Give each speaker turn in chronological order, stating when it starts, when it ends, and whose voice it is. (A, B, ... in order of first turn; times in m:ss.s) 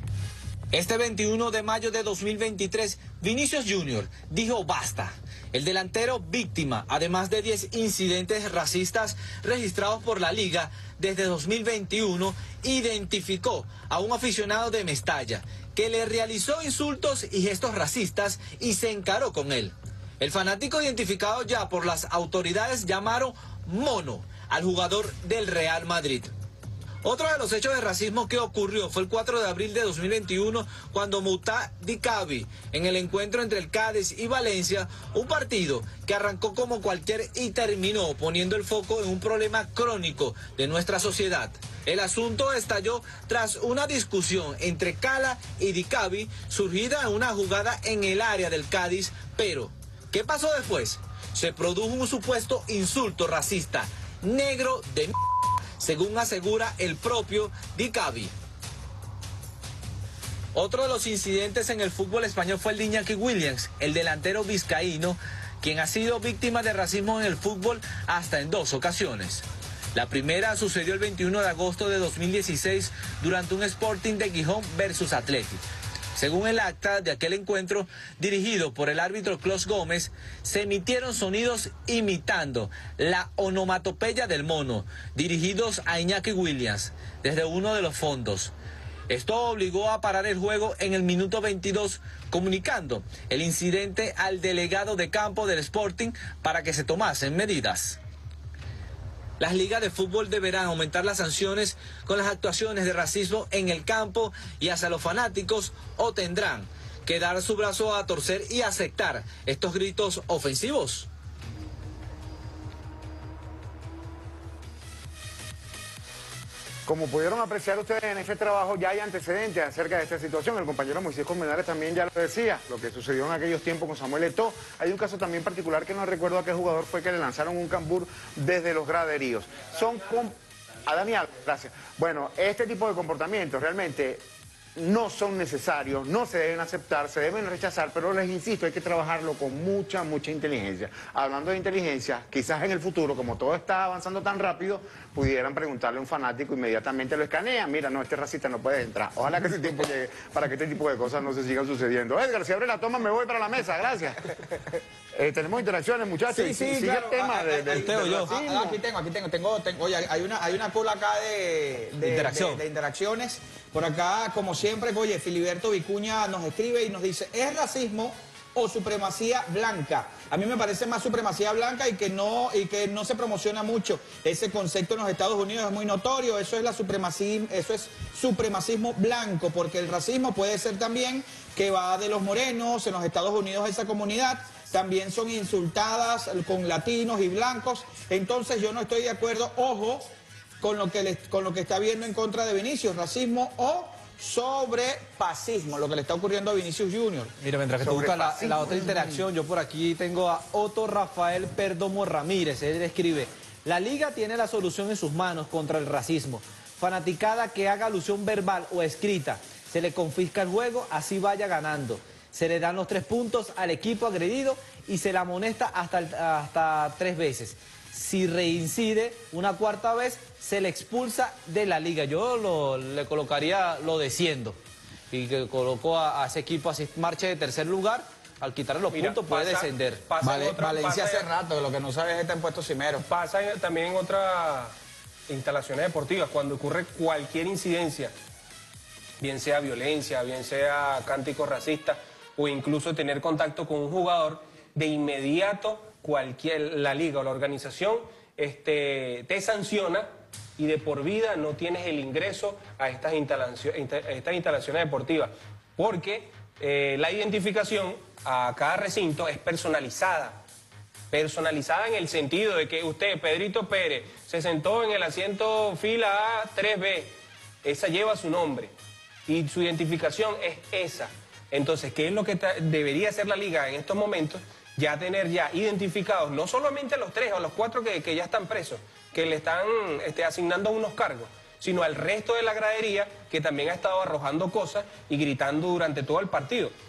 0:00.7-0:26.3 A
0:27.0-0:55.2 A
0:55.8-0:58.3 A
1:00.5-1:15.6 A
1:16.2-1:28.5 A
1:29.1-1:38.0 A
1:39.4-1:51.1 A
1:56.9-2:14.2 B
2:14.8-2:34.3 B
2:35.1-2:38.8 B
2:36.3-3:10.1 C
2:37.7-2:38.3 A
2:42.0-2:42.6 A
3:10.6-3:17.3 C
3:17.4-3:44.6 A
3:17.8-3:19.2 B
3:45.1-3:50.0 A
3:48.9-3:51.3 D
3:50.2-3:53.0 C
3:53.0-3:54.7 D
3:55.3-3:58.1 D
3:59.2-4:20.4 D
4:21.1-4:28.7 D
4:29.3-4:46.7 D